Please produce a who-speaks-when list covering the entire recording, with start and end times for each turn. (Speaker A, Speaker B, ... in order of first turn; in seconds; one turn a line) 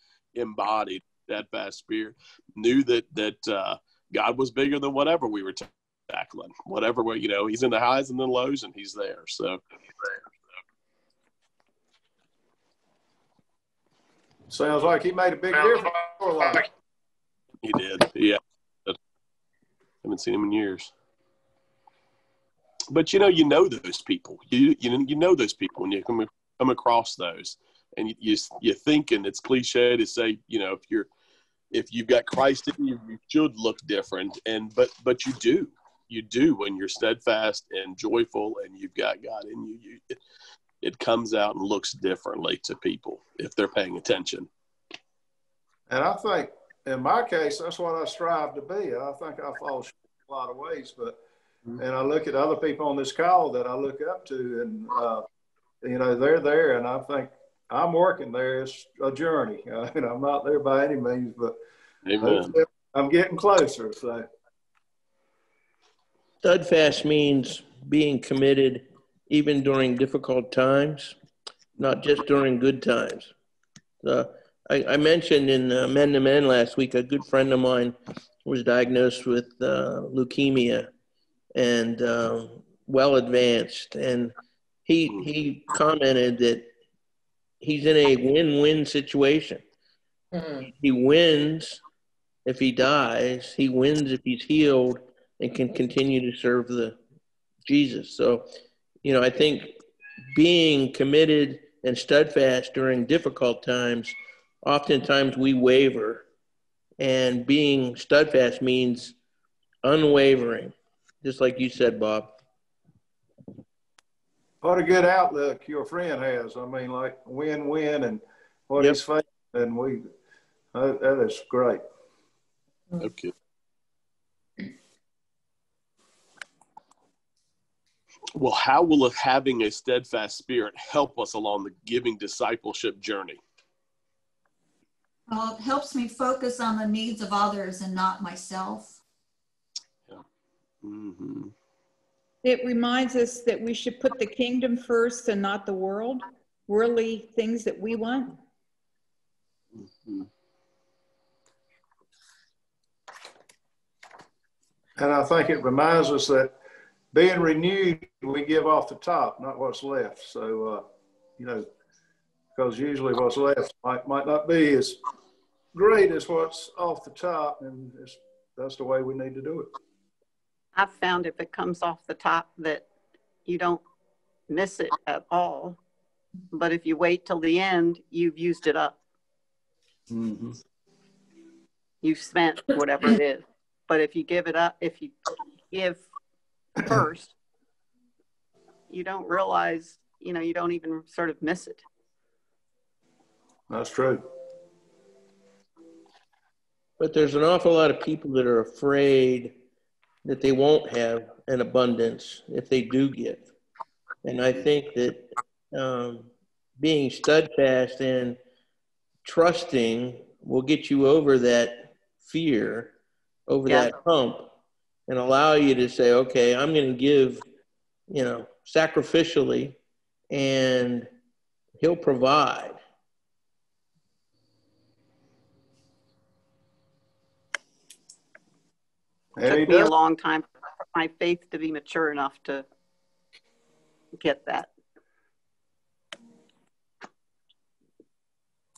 Speaker A: 0.3-9.6
Speaker B: 14.5-16.7
Speaker A: 17.6-19.0
Speaker A: 20.0-20.9
Speaker A: 22.9-31.1
Speaker A: 31.7-40.2
Speaker A: 40.8-44.5
Speaker B: 45.9-51.2
Speaker B: 51.8-55.2
Speaker B: 55.8-61.6
Speaker A: 62.0-62.5
Speaker B: 62.2-64.2
Speaker C: 66.4-71.2
Speaker C: 71.8-73.3
Speaker C: 74.0-80.9
Speaker C: 81.5-84.3
Speaker C: 84.9-86.7
Speaker C: 87.6-89.6
Speaker C: 90.8-91.8
Speaker C: 92.5-97.0
Speaker C: 97.7-98.5
Speaker C: 99.0-99.8
Speaker C: 100.3-106.2
Speaker C: 107.0-109.2
Speaker C: 109.8-112.4
Speaker B: 114.6-120.1
Speaker B: 120.7-121.8
Speaker A: 123.0-123.3
Speaker A: 128.3-133.4
Speaker D: 135.3-139.0
Speaker A: 140.8-141.5
Speaker E: 142.4-148.4
Speaker A: 149.8-150.3
Speaker B: 155.0-156.5
Speaker B: 157.1-160.8
Speaker B: 161.4-161.7
Speaker B: 162.6-165.0
Speaker B: 165.7-169.7
Speaker F: 170.8-172.9
Speaker F: 173.5-173.8
Speaker F: 174.5-175.8
Speaker F: 176.5-179.0
Speaker B: 180.1-180.6
Speaker F: 182.0-185.2
Speaker F: 185.7-186.1
Speaker F: 186.8-187.3
Speaker F: 188.9-191.8
Speaker B: 193.7-194.2
Speaker C: 197.0-199.6
Speaker C: 200.2-203.5
Speaker C: 204.2-208.4
Speaker C: 209.2-212.9
Speaker C: 213.5-214.5
Speaker F: 213.7-213.9
Speaker C: 215.1-217.4
Speaker C: 218.1-219.8
Speaker C: 220.3-221.1
Speaker C: 221.8-222.8
Speaker B: 229.4-229.9
Speaker F: 229.5-232.7
Speaker F: 234.2-234.7